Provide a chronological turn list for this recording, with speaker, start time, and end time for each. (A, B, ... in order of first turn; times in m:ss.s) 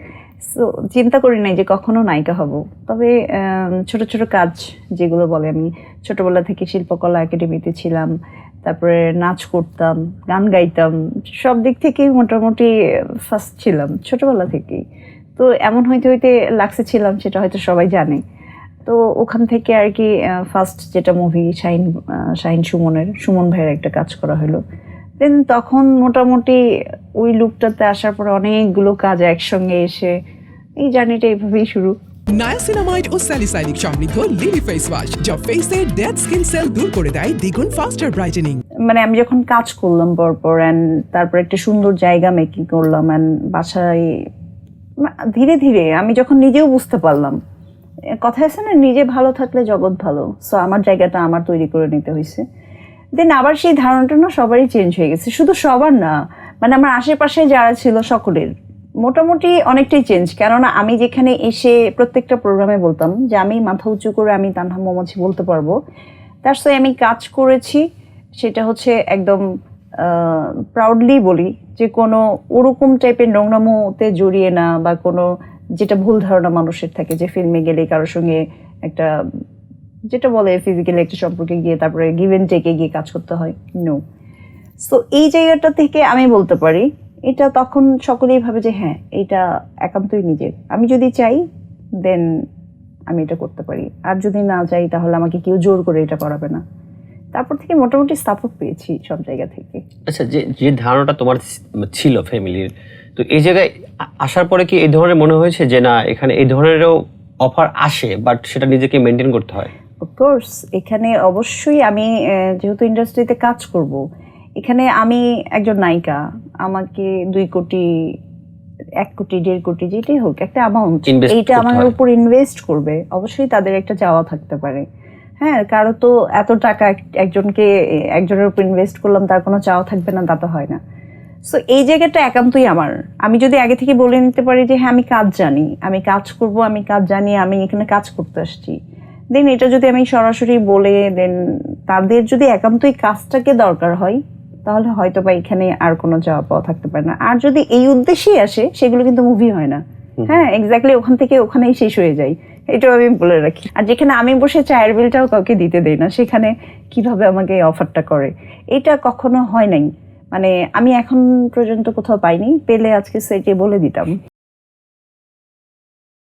0:00.4-0:08.1 A
0:08.6-0:12.7 A
0:13.3-0:14.8 A
0:15.4-0:18.2 A
0:18.9-0:24.6 A
0:25.2-0:26.6 A
0:27.2-0:30.2 A
0:30.8-0:32.0 A
0:32.3-0:38.6 B
0:38.9-0:44.2 A
0:45.0-0:47.4 A
0:48.2-0:52.4 A
0:53.2-0:58.5 A
0:59.0-1:05.7 A
1:06.4-1:07.8 A
1:08.4-1:09.4 A
1:10.0-1:15.3 A
1:15.8-1:19.1 A
1:20.1-1:24.0 A
1:24.8-1:31.4 A
1:32.0-1:32.3 A
1:33.1-1:36.6 A
1:37.3-1:39.8 A
1:40.1-1:49.7 C
1:50.0-1:54.0 A
1:54.6-1:58.1 A
1:59.0-2:04.8 A
2:01.1-2:01.9 C
2:05.4-2:10.8 A
2:11.5-2:18.8 A
2:19.3-2:21.4 A
2:21.9-2:44.2 A